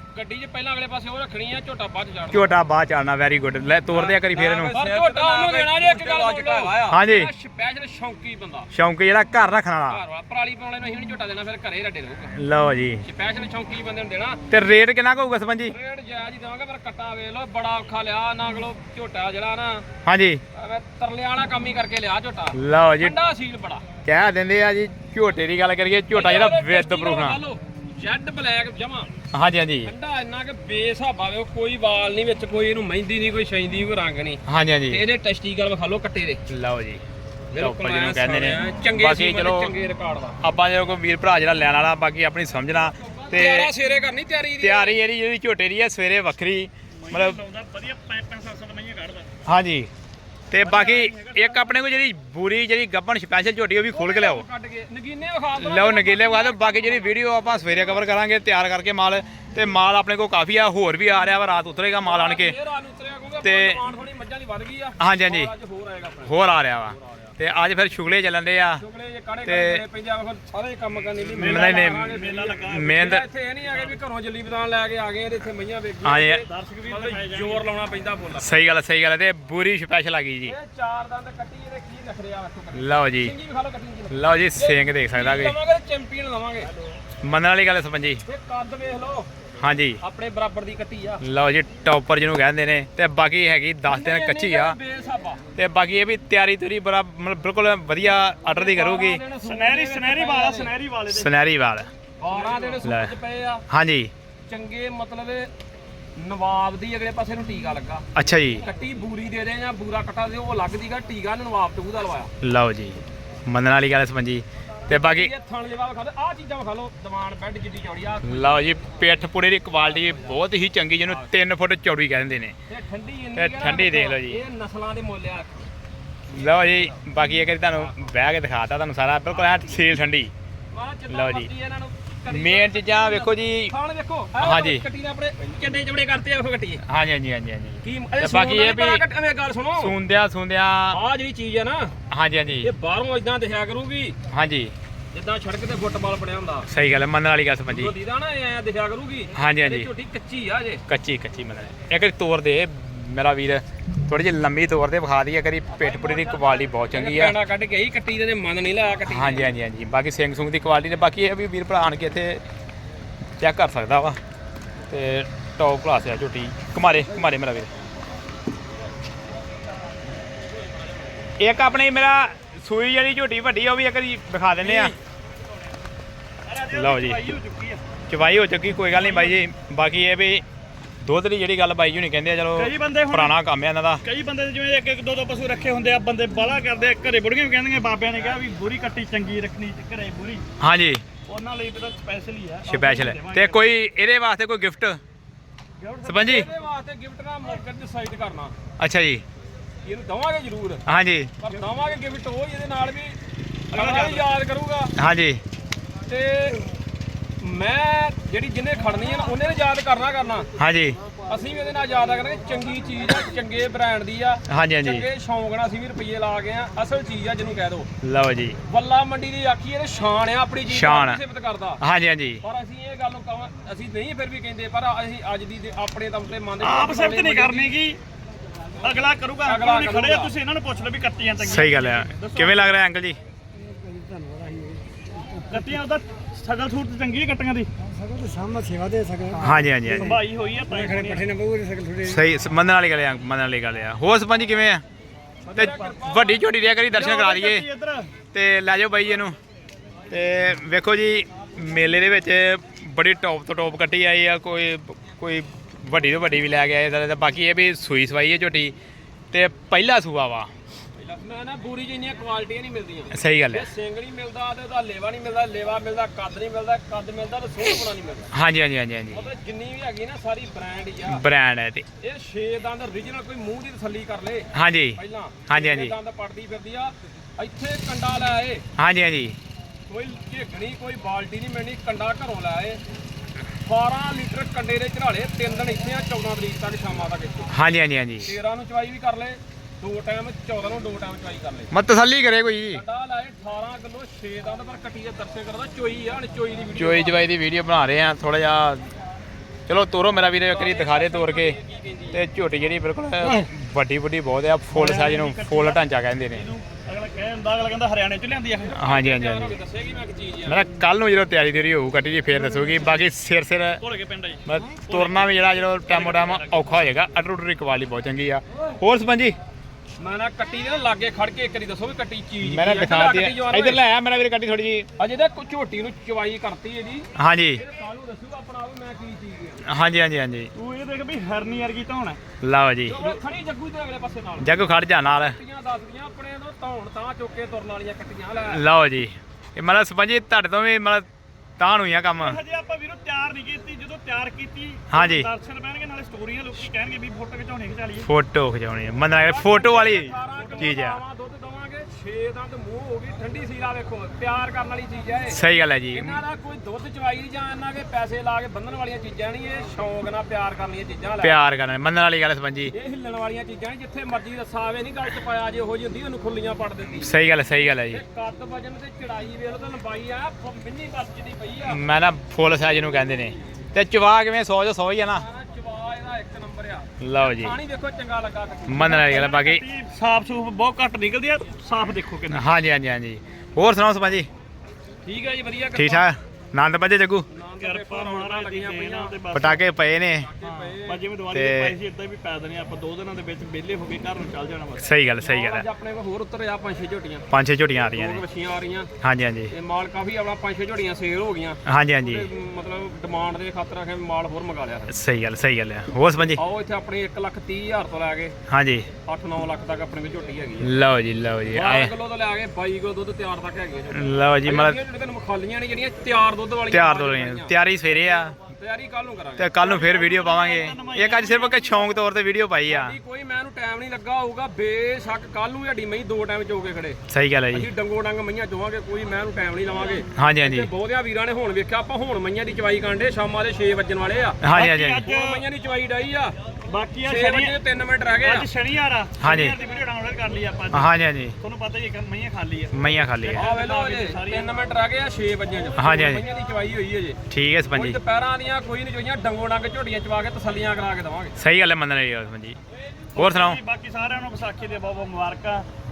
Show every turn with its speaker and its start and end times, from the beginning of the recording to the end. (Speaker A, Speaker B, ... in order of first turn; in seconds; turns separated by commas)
Speaker A: 0.1-2.5, Speaker B: 2.3-4.8, Speaker C: 4.0-6.9, Speaker A: 4.7-8.7, Speaker B: 6.9-7.3, Speaker B: 8.7-10.0, Speaker A: 9.9-12.4, Speaker B: 12.3-13.0, Speaker A: 13.0-14.4, Speaker B: 14.5-15.7, Speaker A: 15.7-19.9, Speaker B: 20.1-20.4, Speaker A: 20.5-23.9, Speaker B: 22.5-23.1, Speaker B: 24.1-27.4, Speaker A: 26.1-29.1, Speaker B: 29.3-29.9, Speaker A: 29.8-36.4, Speaker B: 34.5-35.0, Speaker B: 36.5-37.0, Speaker A: 37.5-40.4, Speaker B: 37.6-39.7, Speaker B: 40.4-43.7, Speaker A: 43.1-45.0, Speaker B: 44.6-47.4, Speaker D: 47.0-49.3, Speaker B: 49.5-49.9, Speaker B: 50.5-54.4, Speaker D: 50.6-51.8, Speaker A: 53.9-57.2, Speaker B: 55.6-62.6, Speaker A: 62.0-66.3, Speaker B: 63.4-63.8, Speaker B: 65.0-65.5, Speaker B: 66.2-68.8, Speaker A: 66.9-67.3, Speaker A: 68.8-78.5, Speaker B: 69.5-69.8, Speaker B: 71.4-73.2, Speaker D: 71.4-73.2, Speaker B: 76.0-76.4, Speaker D: 76.3-77.6, Speaker B: 78.4-80.5, Speaker A: 80.4-86.7, Speaker B: 82.7-83.3, Speaker B: 84.1-85.5, Speaker B: 87.2-88.2, Speaker A: 88.3-89.3, Speaker B: 89.6-90.0, Speaker A: 90.0-91.2, Speaker B: 91.2-94.8, Speaker A: 93.8-95.4, Speaker B: 95.6-99.2, Speaker A: 98.5-100.7, Speaker D: 99.4-101.3, Speaker B: 101.1-101.9, Speaker A: 102.2-103.6, Speaker D: 102.3-102.6, Speaker B: 102.8-103.1, Speaker B: 103.7-104.1, Speaker A: 104.5-105.5, Speaker A: 106.2-112.3, Speaker B: 108.2-108.7, Speaker B: 112.4-115.3, Speaker A: 114.9-118.8, Speaker B: 118.2-122.5, Speaker A: 119.8-120.4, Speaker A: 121.0-121.3, Speaker A: 122.7-125.7, Speaker B: 123.3-124.4, Speaker B: 126.3-130.3, Speaker A: 126.4-126.8, Speaker A: 129.4-129.8, Speaker A: 130.7-136.8, Speaker B: 131.1-131.5, Speaker B: 132.3-133.7, Speaker B: 134.4-134.8, Speaker B: 136.8-139.0, Speaker A: 137.8-139.9, Speaker B: 139.8-141.0, Speaker A: 140.9-141.9, Speaker B: 142.1-142.7, Speaker A: 142.6-144.2, Speaker B: 144.3-144.7, Speaker A: 145.1-146.7, Speaker B: 146.7-147.9, Speaker A: 147.7-150.8, Speaker B: 149.3-149.9, Speaker B: 150.9-157.3, Speaker A: 155.7-159.5, Speaker B: 159.1-162.4, Speaker B: 163.4-164.2, Speaker B: 164.9-167.7, Speaker B: 171.4-174.9, Speaker D: 174.6-174.9, Speaker D: 176.5-177.8, Speaker B: 176.7-177.3, Speaker B: 178.1-180.4, Speaker D: 178.9-179.4, Speaker B: 181.0-184.0, Speaker D: 182.6-183.4, Speaker D: 184.0-190.4, Speaker B: 190.6-191.0, Speaker D: 191.3-193.6, Speaker B: 192.7-195.0, Speaker D: 195.8-196.2, Speaker A: 195.9-198.6, Speaker B: 196.0-196.5, Speaker B: 198.8-199.2, Speaker A: 199.8-200.8, Speaker B: 200.9-201.3, Speaker A: 201.4-203.2, Speaker A: 203.7-204.9, Speaker D: 203.7-204.2, Speaker B: 205.0-205.4, Speaker A: 206.1-206.6, Speaker A: 207.4-210.5, Speaker B: 210.6-211.0, Speaker A: 211.2-217.9, Speaker B: 214.5-215.1, Speaker B: 218.0-218.6, Speaker A: 218.7-221.8, Speaker B: 220.7-221.2, Speaker B: 221.8-222.4, Speaker A: 222.4-227.8, Speaker D: 226.6-228.0, Speaker D: 228.8-232.8, Speaker A: 229.4-230.3, Speaker B: 231.4-233.2, Speaker C: 234.3-234.6, Speaker D: 235.4-237.7, Speaker C: 238.1-239.4, Speaker B: 239.4-240.2, Speaker D: 239.9-241.3, Speaker C: 241.0-242.0, Speaker B: 242.0-244.8, Speaker A: 245.5-246.6, Speaker B: 245.6-247.7, Speaker D: 246.9-248.1, Speaker B: 248.3-249.4, Speaker B: 250.1-258.7, Speaker B: 259.3-260.5, Speaker A: 261.0-268.3, Speaker B: 263.1-263.7, Speaker B: 268.3-269.3, Speaker A: 269.1-271.2, Speaker B: 271.1-271.9, Speaker A: 272.0-278.6, Speaker B: 274.5-275.9, Speaker B: 278.8-279.4, Speaker A: 279.9-282.8, Speaker A: 283.6-287.5, Speaker B: 287.5-288.3, Speaker A: 288.2-291.7, Speaker B: 291.7-292.8, Speaker A: 292.7-297.2, Speaker B: 296.8-298.9, Speaker B: 299.7-301.6, Speaker A: 300.5-302.2, Speaker B: 302.1-306.5, Speaker D: 303.2-303.5, Speaker D: 304.7-308.8, Speaker B: 308.8-309.6, Speaker A: 308.8-310.6, Speaker B: 310.5-313.8, Speaker D: 312.4-313.1, Speaker D: 313.8-315.3, Speaker B: 314.5-319.4, Speaker D: 315.9-316.8, Speaker A: 320.0-323.8, Speaker B: 322.4-324.9, Speaker A: 325.0-329.6, Speaker B: 327.2-327.6, Speaker B: 329.6-330.5, Speaker D: 330.6-332.2, Speaker B: 332.4-333.1, Speaker A: 332.9-338.6, Speaker B: 334.4-335.4, Speaker B: 338.5-341.1, Speaker B: 341.6-342.4, Speaker D: 342.2-348.1, Speaker B: 344.9-345.3, Speaker B: 348.0-351.0, Speaker A: 349.2-355.4, Speaker D: 350.3-350.8, Speaker B: 355.3-356.2, Speaker A: 355.9-361.4, Speaker B: 361.2-362.7, Speaker A: 362.7-367.1, Speaker B: 367.0-368.0, Speaker A: 367.9-371.8, Speaker B: 371.6-375.2, Speaker A: 372.6-373.4, Speaker A: 375.1-379.0, Speaker B: 377.0-377.6, Speaker B: 378.7-379.6, Speaker D: 378.8-382.4, Speaker B: 382.3-384.3, Speaker A: 385.1-386.1, Speaker B: 385.7-387.3, Speaker A: 387.3-389.2, Speaker D: 387.6-389.6, Speaker B: 389.3-390.3, Speaker A: 390.1-391.1, Speaker D: 390.4-394.9, Speaker B: 391.3-391.8, Speaker B: 394.8-395.6, Speaker A: 395.2-397.3, Speaker B: 397.3-398.2, Speaker A: 397.9-398.9, Speaker B: 399.0-399.5, Speaker A: 399.5-404.9, Speaker B: 401.7-402.3, Speaker B: 404.9-406.4, Speaker A: 406.4-408.4, Speaker B: 408.5-408.9, Speaker A: 409.0-410.7, Speaker B: 410.6-411.9, Speaker A: 411.5-420.0, Speaker B: 413.9-414.8, Speaker B: 416.7-418.4, Speaker B: 419.4-423.0, Speaker D: 419.6-422.0, Speaker A: 422.7-434.4, Speaker B: 427.1-427.7, Speaker B: 430.1-430.7, Speaker B: 434.4-435.1, Speaker D: 434.5-435.5, Speaker A: 435.0-436.4, Speaker D: 436.7-437.6, Speaker A: 437.0-438.5, Speaker D: 438.2-440.9, Speaker B: 439.2-439.6, Speaker B: 440.7-441.4, Speaker D: 441.4-444.6, Speaker B: 442.7-443.4, Speaker A: 443.3-451.4, Speaker B: 445.8-446.2, Speaker B: 447.3-448.0, Speaker B: 451.4-452.6, Speaker B: 453.1-453.6, Speaker D: 453.1-455.7